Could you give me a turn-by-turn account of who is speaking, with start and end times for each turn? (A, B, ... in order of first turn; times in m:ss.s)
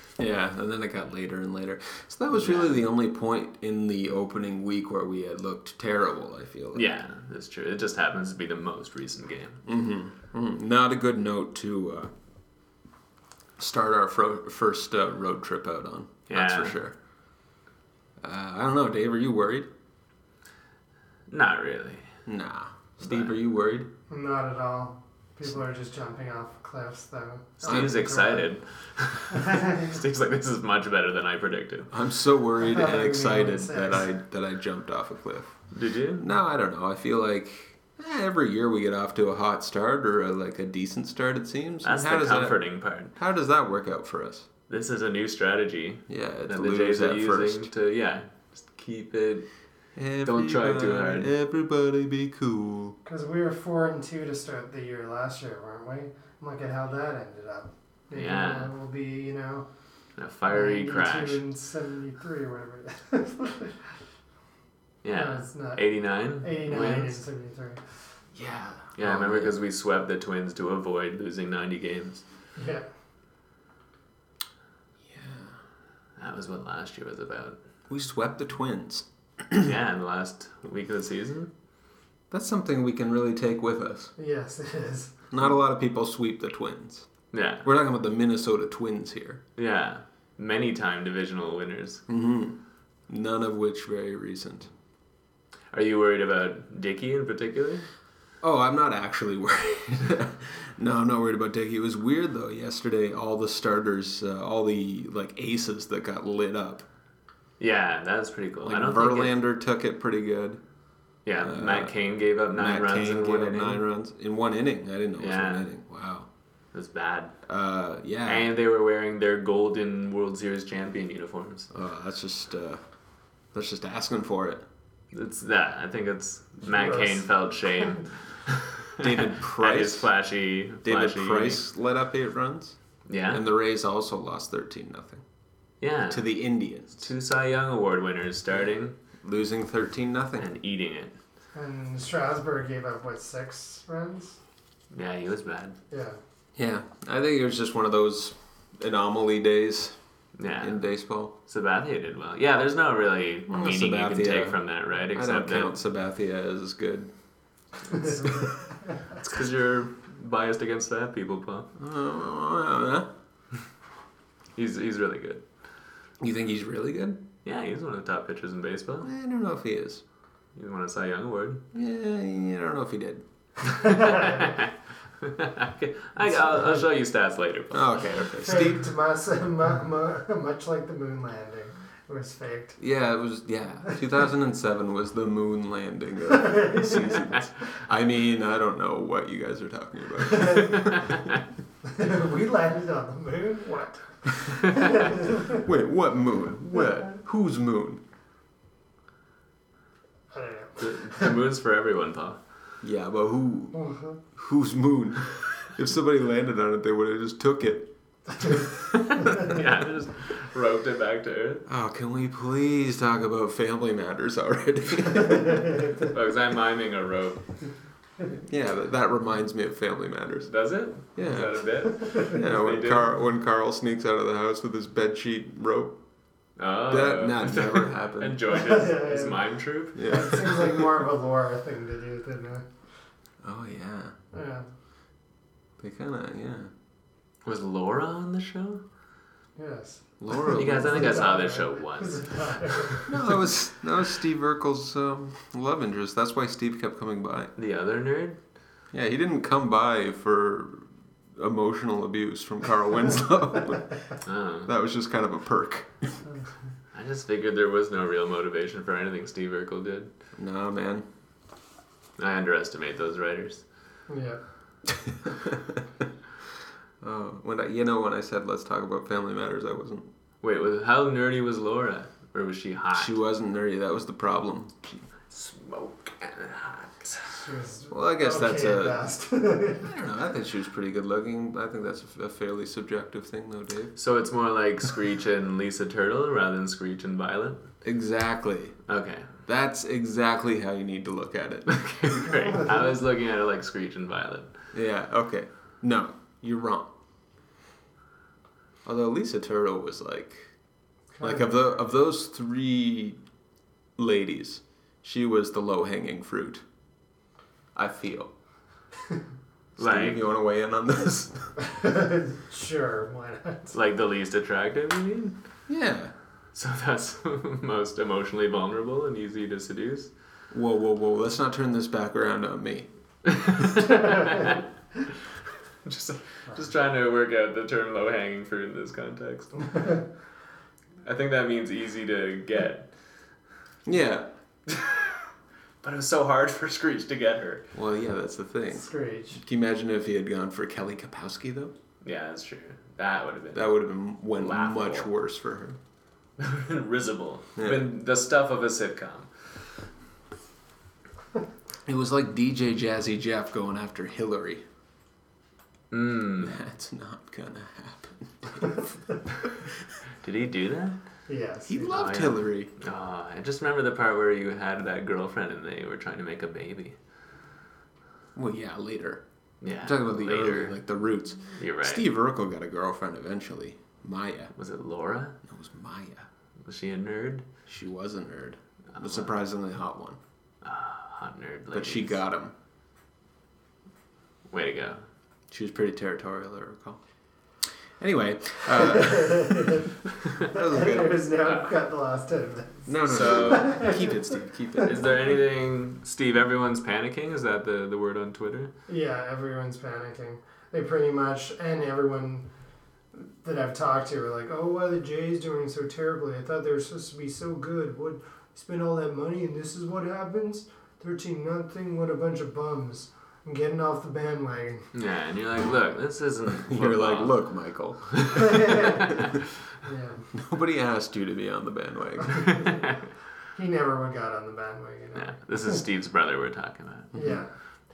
0:00.2-0:06.8 A
0:02.3-0:02.8 B
0:06.7-0:09.6 B
0:09.6-0:12.1 A
0:13.6-0:16.9 A
0:16.3-0:16.8 B
0:18.2-0:19.7 A
0:21.3-0:22.1 B
0:22.2-0:23.9 A
0:23.0-0:23.3 B
0:24.1-0:28.5 C
0:27.6-0:31.9 B
0:27.6-0:27.9 A
0:29.3-0:29.9 C
0:31.9-0:35.5 A
0:32.6-0:34.1 C
0:35.7-0:36.2 B
0:36.2-0:42.6 A
0:41.8-0:43.1 B
0:43.1-0:44.5 A
0:44.7-0:49.5 B
0:46.1-0:47.7 A
0:50.0-0:53.0 A
0:50.2-0:51.3 B
0:53.0-0:59.7 C
0:58.1-0:58.7 B
1:00.2-1:01.4 B
1:00.5-1:03.8 C
1:05.0-1:07.2 B
1:05.1-1:05.8 C
1:06.4-1:07.8 C
1:08.3-1:09.5 A
1:09.0-1:12.2 B
1:12.6-1:12.9 C
1:15.1-1:15.5 A
1:16.2-1:17.6 B
1:17.9-1:19.7 A
1:19.6-1:21.5 B
1:22.3-1:24.1 A
1:24.2-1:25.2 C
1:25.3-1:27.1 A
1:27.3-1:27.6 B
1:27.6-1:29.4 A
1:29.6-1:32.0 B
1:32.1-1:32.6 A
1:33.1-1:34.7 A
1:35.7-1:37.8 B
1:38.4-1:46.8 A
1:47.6-1:49.3 B
1:48.6-1:50.6 A
1:51.2-1:53.8 B
1:51.4-1:51.9 A
1:52.5-1:56.3 A
1:55.2-1:55.7 B
1:56.7-1:57.3 B
1:57.4-1:58.5 A
1:58.2-2:01.7 B
2:01.7-2:02.8 A
2:03.5-2:04.6 A
2:05.1-2:11.6 B
2:06.6-2:08.0 C
2:09.0-2:10.1 A
2:10.8-2:12.8 A
2:13.1-2:13.4 B
2:13.3-2:15.2 A
2:15.8-2:16.2 B
2:16.1-2:17.1 A
2:16.9-2:19.0 B
2:19.2-2:20.5 A
2:20.4-2:21.1 B
2:21.5-2:24.4 C
2:24.9-2:25.8 B
2:25.9-2:26.2 C
2:26.6-2:30.0 A
2:30.4-2:30.8 B
2:30.6-2:31.3 A
2:31.4-2:35.8 B
2:33.5-2:34.6 A
2:35.1-2:37.1 A
2:37.9-2:38.7 C
2:39.2-2:41.7 B
2:41.8-2:43.1 A
2:44.6-2:45.4 B
2:46.2-2:47.2 A
2:47.4-2:49.1 B
2:49.0-2:50.0 A
2:50.6-2:51.6 B
2:51.7-2:53.2 A
2:53.7-2:58.2 B
2:54.1-2:54.5 C
2:57.7-2:58.9 A
2:58.4-3:02.8 C
3:02.8-3:11.3 A
3:06.3-3:07.4 C
3:10.3-3:10.8 C
3:11.9-3:15.6 C
3:15.4-3:18.0 A
3:20.3-3:21.3 C
3:20.8-3:22.4 B
3:22.8-3:23.8 A
3:23.7-3:24.2 C
3:24.3-3:28.6 A
3:28.9-3:31.6 B
3:31.7-3:35.8 A
3:36.1-3:37.4 B
3:38.3-3:40.5 A
3:40.5-3:43.1 B
3:41.1-3:46.0 A
3:46.6-3:50.3 B
3:46.9-3:48.4 A
3:48.5-3:52.6 C
3:49.9-3:50.8 A
3:53.4-3:54.1 A
3:54.3-3:54.7 C
3:55.8-3:56.7 A
3:57.4-3:58.8 B
3:59.6-4:03.1 C
4:00.2-4:01.2 A
4:00.4-4:03.0 B
4:03.1-4:07.5 A
4:07.6-4:08.4 B
4:08.9-4:14.0 A
4:14.2-4:14.7 B
4:14.6-4:16.2 A
4:16.9-4:20.1 B
4:20.4-4:21.0 A
4:22.2-4:23.6 B
4:24.1-4:24.4 C
4:25.0-4:26.1 A
4:27.0-4:30.1 A
4:30.4-4:33.1 B
4:32.9-4:35.0 A
4:35.3-4:37.5 B
4:37.3-4:39.9 C
4:37.9-4:39.0 A
4:39.8-4:43.9 A
4:44.0-4:47.6 B
4:47.8-4:48.8 A
4:48.9-4:49.3 B
4:49.4-4:51.7 A
4:51.7-4:54.5 B
4:52.4-4:52.6 C
4:54.7-4:56.9 A
4:58.8-5:00.5 A
5:01.1-5:01.5 C
5:01.2-5:03.2 A
5:04.0-5:06.6 A
5:07.7-5:08.3 A
5:09.8-5:11.5 A
5:09.8-5:10.2 B
5:11.6-5:13.7 C
5:13.7-5:15.3 B
5:15.7-5:16.1 A
5:16.5-5:20.1 B
5:20.5-5:22.9 A
5:23.3-5:24.6 B
5:25.8-5:29.9 B
5:29.7-5:30.0 C
5:31.0-5:32.9 B
5:33.8-5:34.3 A
5:34.7-5:35.3 B
5:35.8-5:37.7 B
5:37.7-5:41.7 A
5:38.7-5:39.4 C
5:42.0-5:43.7 B
5:43.5-5:45.8 A
5:44.4-5:45.1 B
5:46.4-5:49.3 B
5:47.6-5:47.8 A
5:51.9-5:54.6 A
5:55.9-5:56.6 B
5:56.4-5:58.9 A
6:00.2-6:01.0 B
6:01.3-6:01.9 C
6:01.7-6:02.7 A
6:01.9-6:07.0 B
6:08.4-6:09.2 A
6:09.6-6:10.8 B
6:09.8-6:14.5 A
6:11.5-6:12.0 B
6:14.5-6:15.4 B
6:15.4-6:16.3 A
6:16.6-6:17.4 B
6:17.7-6:20.2 A
6:19.0-6:19.3 B
6:20.6-6:22.2 B
6:21.7-6:22.5 A
6:24.5-6:25.0 B
6:25.5-6:27.0 A
6:28.0-6:31.3 A
6:28.9-6:29.8 C
6:30.4-6:34.2 C
6:32.9-6:35.0 A
6:33.0-6:33.8 B
6:34.8-6:38.7 B
6:38.9-6:42.5 C
6:43.1-6:54.8 C
6:54.9-6:57.4 B
6:56.6-6:58.5 A
6:58.1-6:59.4 B
6:58.4-7:00.3 C
7:00.3-7:02.5 A
7:02.5-7:02.9 B
7:03.5-7:05.8 C
7:05.1-7:07.1 B
7:07.1-7:07.4 A
7:07.1-7:07.5 C